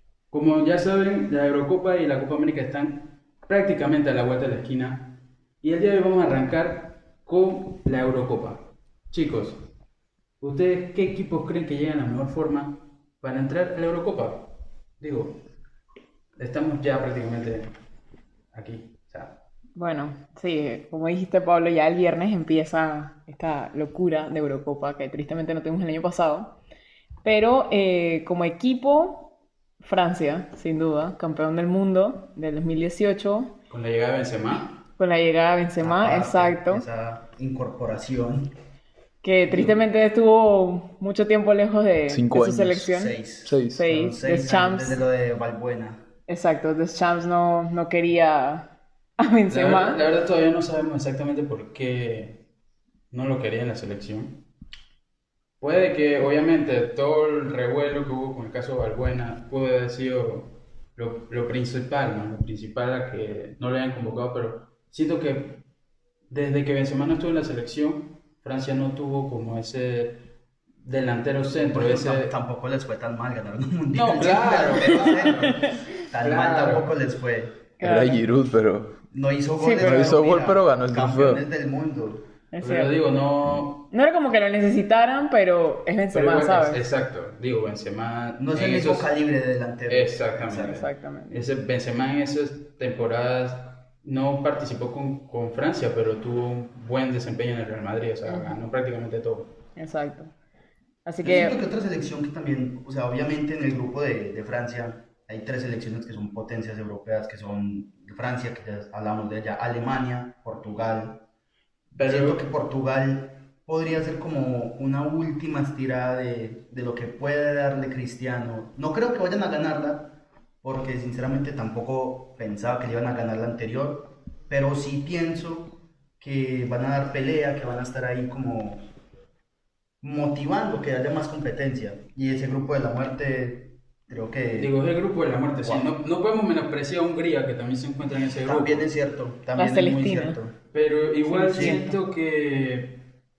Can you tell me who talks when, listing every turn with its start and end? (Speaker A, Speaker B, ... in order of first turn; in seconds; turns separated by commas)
Speaker A: 0.3-9.6, Speaker A: 10.4-15.4, Speaker A: 16.4-17.7, Speaker A: 18.5-19.4, Speaker B: 19.8-26.6, Speaker B: 27.2-33.5, Speaker A: 33.7-34.8, Speaker B: 35.0-36.8, Speaker C: 35.8-38.5, Speaker B: 39.2-43.1, Speaker A: 39.5-39.7, Speaker D: 42.1-42.9, Speaker C: 42.9-46.0, Speaker D: 43.4-43.9, Speaker B: 43.7-45.0, Speaker B: 46.3-50.0, Speaker A: 49.5-52.4, Speaker A: 53.1-54.4, Speaker A: 55.6-65.6, Speaker A: 66.3-70.2, Speaker A: 70.8-72.3, Speaker C: 71.7-77.5, Speaker A: 73.9-75.6, Speaker B: 75.3-75.7, Speaker A: 76.2-76.9, Speaker B: 77.8-78.2, Speaker D: 77.8-79.0, Speaker C: 79.1-82.3, Speaker B: 79.6-80.2, Speaker D: 79.8-81.4, Speaker B: 82.5-83.0, Speaker A: 82.6-83.9, Speaker B: 83.9-86.8, Speaker A: 86.1-89.1, Speaker C: 88.4-90.8, Speaker A: 89.9-99.5, Speaker B: 90.7-91.4, Speaker B: 98.2-98.6, Speaker B: 99.8-100.3, Speaker B: 101.0-101.6, Speaker C: 101.2-111.2, Speaker A: 111.9-112.4, Speaker C: 112.0-128.9, Speaker C: 130.0-134.7, Speaker A: 134.6-138.9, Speaker C: 135.6-135.9, Speaker C: 138.4-140.5, Speaker B: 139.6-140.4, Speaker A: 140.7-143.0, Speaker B: 141.2-142.0, Speaker C: 141.5-141.8